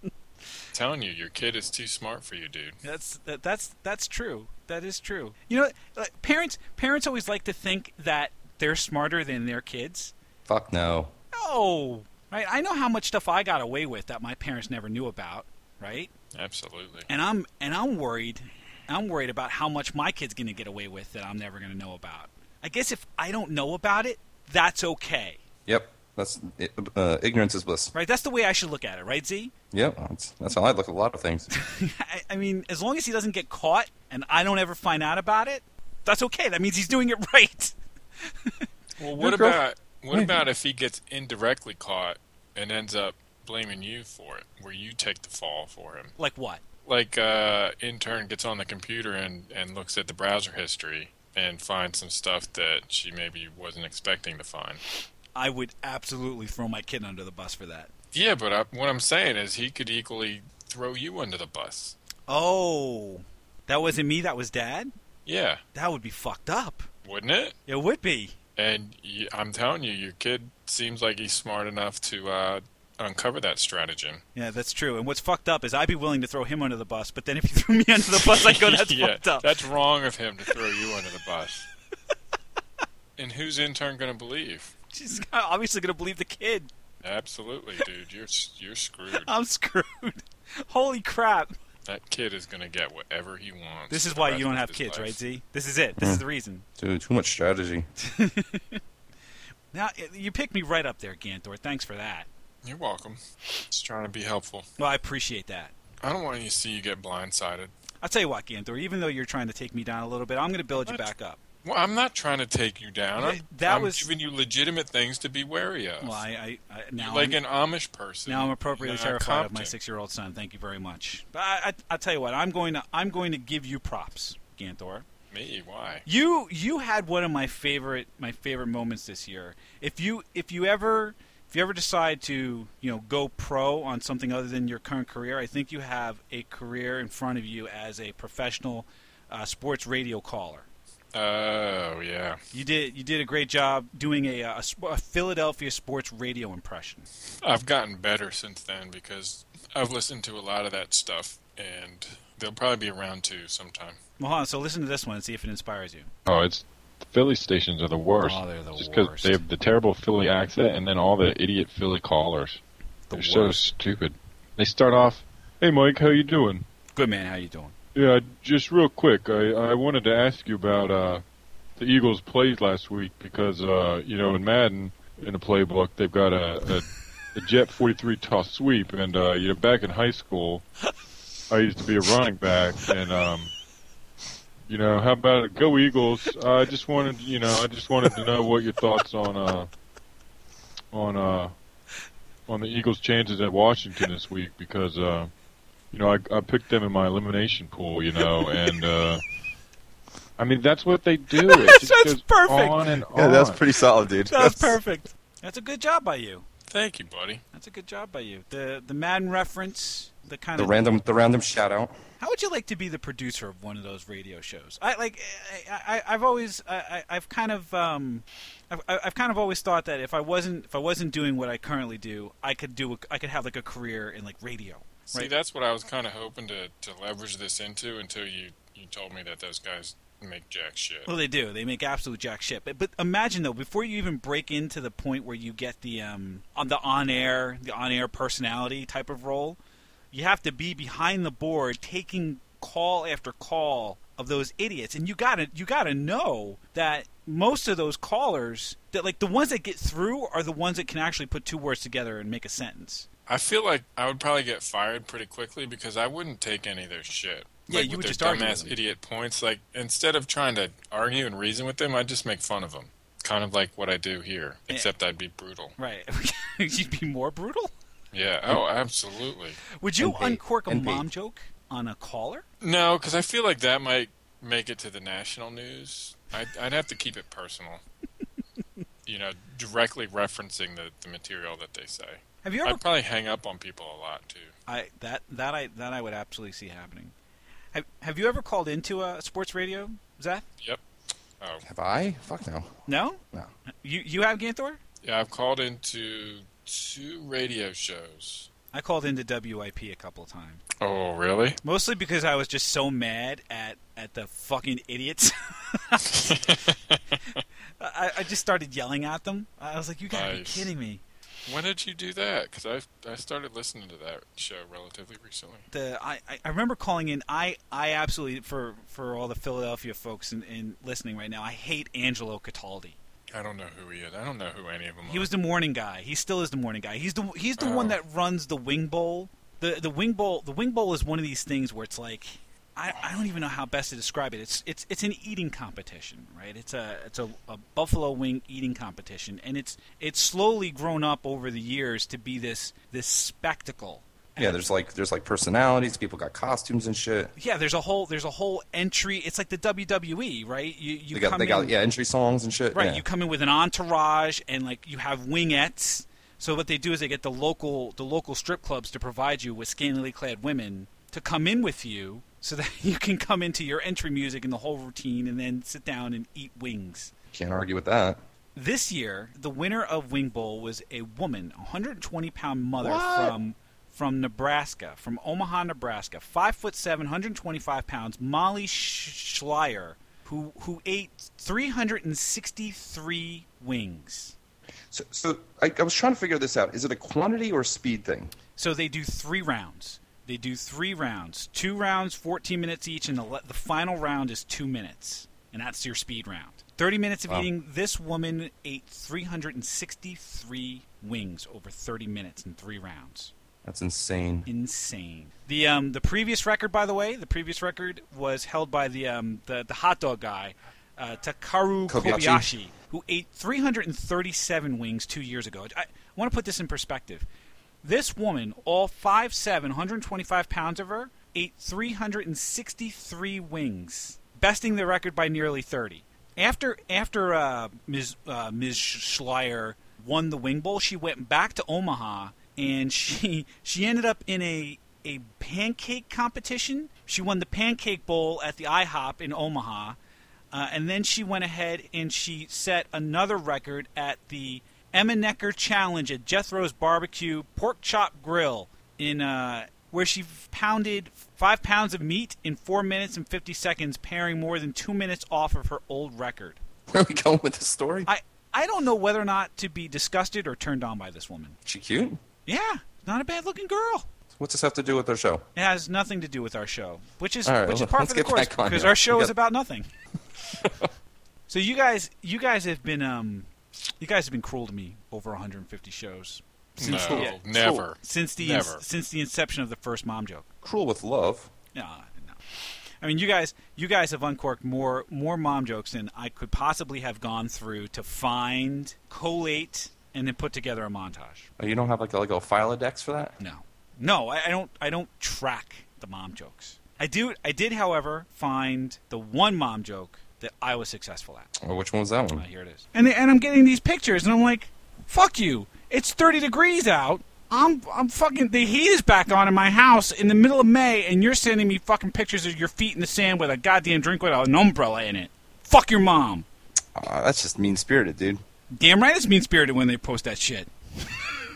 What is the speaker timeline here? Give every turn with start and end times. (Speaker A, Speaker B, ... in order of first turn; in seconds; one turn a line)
Speaker A: 0.7-2.8
Speaker B: 2.8-10.1
Speaker C: 10.5-11.1
Speaker B: 11.3-16.1
Speaker A: 16.3-17.1
Speaker B: 17.1-25.4
Speaker C: 25.7-27.9
Speaker B: 27.9-29.5
Speaker C: 29.7-31.5
Speaker B: 31.5-38.7
Speaker A: 39.0-46.1
Speaker B: 39.2-39.5
Speaker C: 39.2-39.5
Speaker C: 40.1-40.4
Speaker B: 46.2-46.6
Speaker A: 46.9-54.8
Speaker B: 55.4-57.9
Speaker A: 58.1-62.0
Speaker B: 62.3-64.9
Speaker A: 65.3-65.6
Speaker B: 65.7-66.9
Speaker A: 67.0-67.6
Speaker B: 67.7-68.3
Speaker A: 68.6-74.2
Speaker B: 74.3-79.5
Speaker A: 78.1-81.7
Speaker A: 83.2-84.7
Speaker B: 84.9-86.7
Speaker A: 87.0-89.3
Speaker B: 89.2-91.5
Speaker A: 91.9-95.2
Speaker B: 93.9-96.7
Speaker C: 96.8-97.9
Speaker B: 98.0-98.8
Speaker B: 99.7-102.3
Speaker A: 102.6-103.2
Speaker A: 103.7-104.7
Speaker B: 104.8-105.7
Speaker A: 106.0-107.7
Speaker B: 108.0-111.4
Speaker A: 111.6-116.2
Speaker B: 113.2-114.1
Speaker B: 116.0-117.4
Speaker A: 117.0-119.7
Speaker B: 118.3-125.0
Speaker A: 125.3-126.0
Speaker B: 126.1-140.7
Speaker A: 141.1-142.4
Speaker B: 142.5-147.1
Speaker A: 147.4-154.0
Speaker B: 154.2-156.1
Speaker D: 156.2-162.6
Speaker B: 158.2-159.4
Speaker B: 163.1-163.7
Speaker D: 163.1-166.6
Speaker B: 167.0-167.7
Speaker D: 167.9-171.2
Speaker D: 171.8-180.6
Speaker D: 181.5-183.5
Speaker D: 184.7-189.7
Speaker D: 190.9-191.5
Speaker D: 192.5-195.3
Speaker D: 195.9-199.2
Speaker D: 200.4-203.6
Speaker B: 201.3-202.9
Speaker C: 203.1-204.8
Speaker B: 204.3-206.4
Speaker A: 206.7-207.4
Speaker B: 207.5-210.8
Speaker C: 210.6-211.9
Speaker B: 212.2-225.3
Speaker A: 225.1-231.1
Speaker B: 231.1-239.6
Speaker B: 240.1-253.1
Speaker A: 253.3-265.8
Speaker B: 257.7-258.8
Speaker B: 265.8-267.7
Speaker A: 268.1-269.6
Speaker B: 269.8-272.4
Speaker C: 270.0-271.1
Speaker A: 272.6-277.8
Speaker A: 279.1-284.5
Speaker B: 282.4-282.8
Speaker B: 284.7-287.1
Speaker B: 287.7-290.4
Speaker C: 291.6-292.7
Speaker B: 292.9-293.2
Speaker B: 293.8-294.8
Speaker A: 295.0-298.5
Speaker B: 298.7-300.6
Speaker A: 300.8-301.6
Speaker B: 301.6-306.6
Speaker A: 306.1-307.4
Speaker B: 307.8-311.0
Speaker A: 310.1-310.7
Speaker A: 311.5-315.7
Speaker B: 315.7-323.0
Speaker A: 323.3-325.3
Speaker B: 325.1-344.6
Speaker A: 327.6-328.0
Speaker C: 344.4-347.3
Speaker B: 347.4-351.7
Speaker C: 351.1-353.0
Speaker B: 352.7-367.1
Speaker C: 367.3-368.2
Speaker B: 368.6-384.4
Speaker C: 372.8-373.4
Speaker C: 384.9-388.3
Speaker B: 388.6-403.3
Speaker C: 403.6-404.5
Speaker B: 404.5-417.3
Speaker C: 411.9-412.5
Speaker B: 417.8-440.0
Speaker B: 440.5-456.6
Speaker C: 456.9-458.1
Speaker B: 458.1-461.6
Speaker C: 461.7-462.2
Speaker B: 462.5-464.1
Speaker C: 464.3-465.4
Speaker B: 465.6-469.9
Speaker C: 467.4-469.3
Speaker C: 470.6-470.9
Speaker B: 471.5-480.5
Speaker A: 476.8-478.8
Speaker C: 477.0-477.8
Speaker C: 480.6-481.5
Speaker B: 481.7-482.4
Speaker B: 483.0-491.5
Speaker C: 491.6-493.4
Speaker B: 493.4-501.5
Speaker C: 501.6-502.5
Speaker B: 502.3-516.5
Speaker C: 517.0-518.4
Speaker B: 518.8-521.4